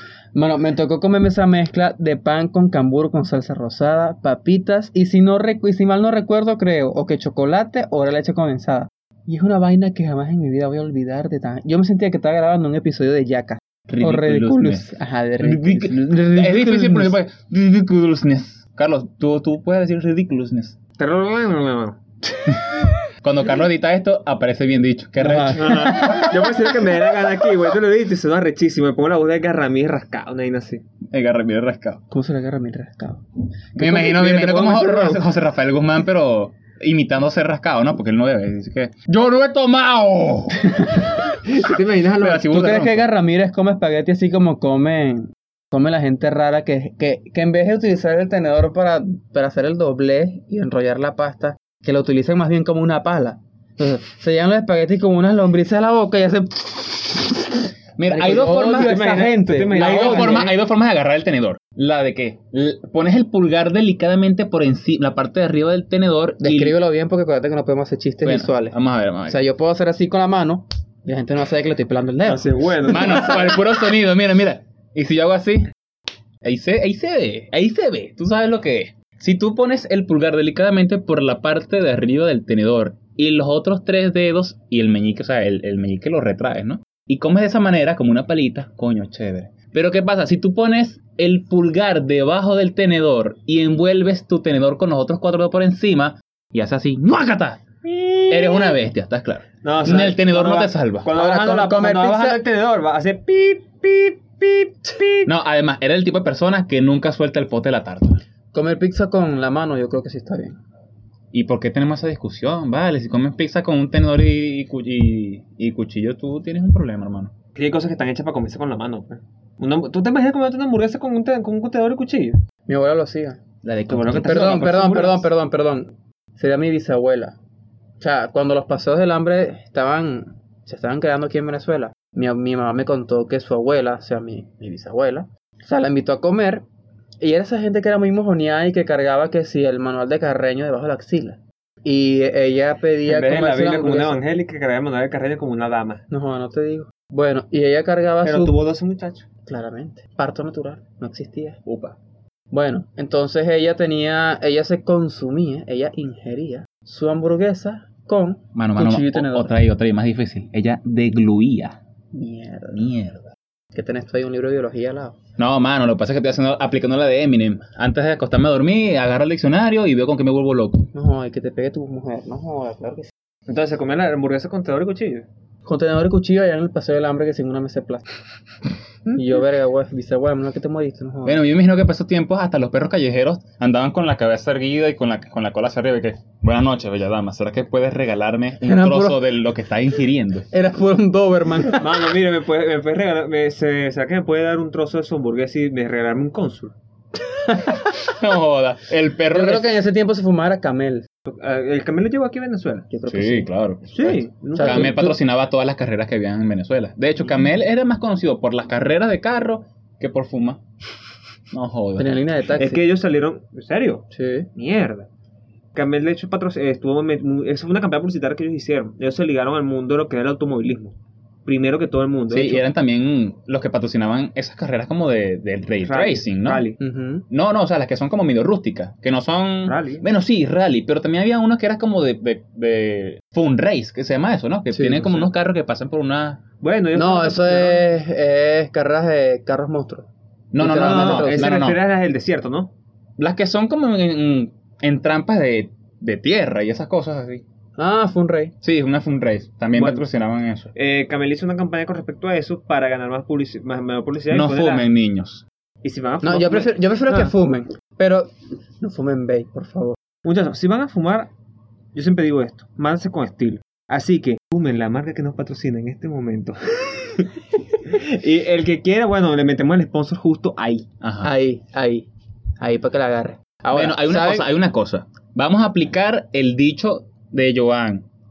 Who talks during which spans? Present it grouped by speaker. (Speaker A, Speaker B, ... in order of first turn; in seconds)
Speaker A: 0.3-17.2, 25.2-26.5, 32.1-33.2, 33.8-34.3, 42.5-60.5, 66.4-68.8, 69.3-72.5, 101.1-102.4, 108.5-110.6, 122.7-123.4, 124.2-127.4, 128.0-136.6, 137.2-144.2, 146.1-148.5, 149.5-151.6, 152.5-159.5, 162.1-162.8, 163.7-165.2, 170.9-173.1, 175.7-178.0, 179.1-181.4, 188.6-189.3, 190.5-191.9, 197.4-198.0, 199.3-201.1, 202.9-203.5, 204.5-205.2, 212.0-212.8, 214.1-214.5, 226.8-227.2, 234.7-235.3, 237.0-241.5, 247.8-248.5, 256.2-260.0, 271.2-272.1, 272.6-274.5
Speaker B: 13.9-14.9, 15.4-20.8, 23.2-26.2, 31.1-32.0, 33.8-41.0, 42.2-43.1, 58.0-59.1, 59.7-66.8, 68.2-69.4, 72.9-75.7, 76.4-97.6, 98.3-101.1, 105.3-108.2, 111.3-117.3, 123.6-124.8, 151.7-152.0, 158.6-161.8, 162.7-163.3, 165.4-170.9, 181.2-190.5, 198.0-199.8, 203.1-210.6, 211.5-212.2, 222.3-226.7, 227.3-236.4, 240.5-241.8, 243.2-247.4, 248.6-250.7, 254.3-255.4, 271.0-271.3, 273.7-278.1
Speaker C: 21.0-22.0, 25.5-30.8, 33.8-35.2, 41.5-42.5, 58.4-60.6, 72.2-73.6, 99.6-105.3, 117.5-122.4, 123.9-125.3, 143.1-146.0, 148.2-149.2, 173.5-175.3, 191.8-196.7, 201.3-202.9, 203.9-205.0, 212.6-215.1, 215.7-222.6, 225.8-226.8, 229.7-230.0, 236.6-237.8, 240.8-242.7, 249.8-250.0, 250.7-254.8, 255.8-257.3, 260.2-261.3, 261.9-270.9